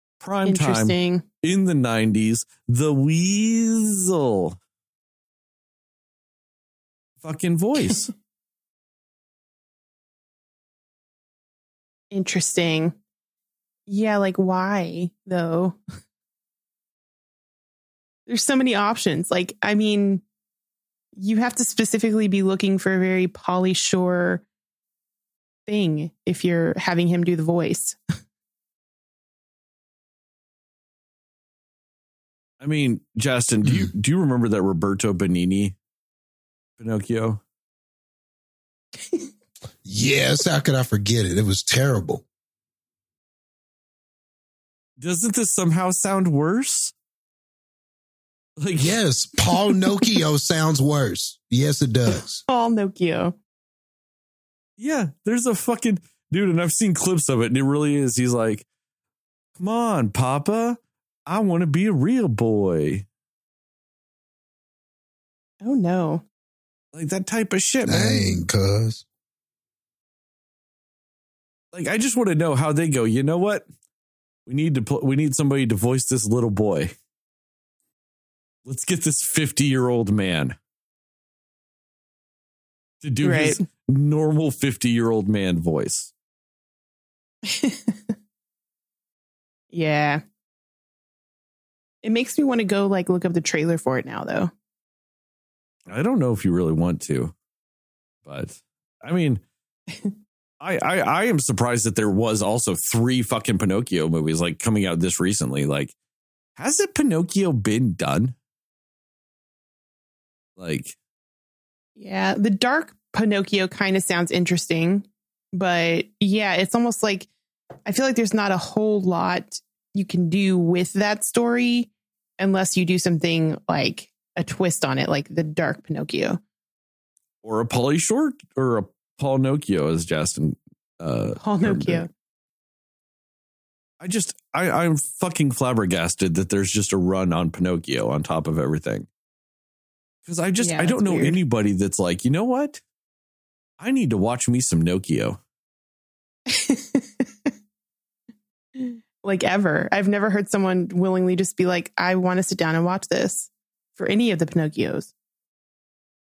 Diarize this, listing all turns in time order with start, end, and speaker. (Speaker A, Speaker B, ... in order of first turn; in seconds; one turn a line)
Speaker A: 0.2-4.5
Speaker B: 0.5-1.2
Speaker A: 7.2-8.1
Speaker B: 12.1-12.9
Speaker B: 13.9-15.8
Speaker B: 18.3-20.2
Speaker B: 21.1-24.4
Speaker B: 25.7-28.0
Speaker A: 32.6-35.7
Speaker A: 36.8-37.4
Speaker B: 39.0-39.3
Speaker C: 39.8-42.2
Speaker A: 45.0-46.9
Speaker A: 48.6-49.0
Speaker C: 48.8-52.4
Speaker B: 49.7-50.2
Speaker B: 52.5-53.4
Speaker A: 54.8-58.6
Speaker A: 59.5-63.0
Speaker B: 65.6-66.2
Speaker A: 66.9-68.3
Speaker C: 67.9-69.0
Speaker A: 71.7-73.6
Speaker A: 74.5-76.9
Speaker A: 78.7-80.5
Speaker A: 83.0-86.1
Speaker B: 83.2-83.6
Speaker B: 87.4-88.1
Speaker B: 89.7-90.2
Speaker B: 92.0-94.5
Speaker A: 95.9-97.3
Speaker A: 98.2-99.4
Speaker A: 100.6-105.9
Speaker A: 106.5-108.3
Speaker A: 110.6-111.0
Speaker B: 112.0-117.3
Speaker B: 117.8-126.4
Speaker A: 127.4-132.0
Speaker B: 131.4-132.1
Speaker A: 134.0-139.1
Speaker A: 140.2-142.8
Speaker B: 140.6-141.4
Speaker A: 143.8-145.4
Speaker B: 146.5-147.5
Speaker B: 148.8-155.1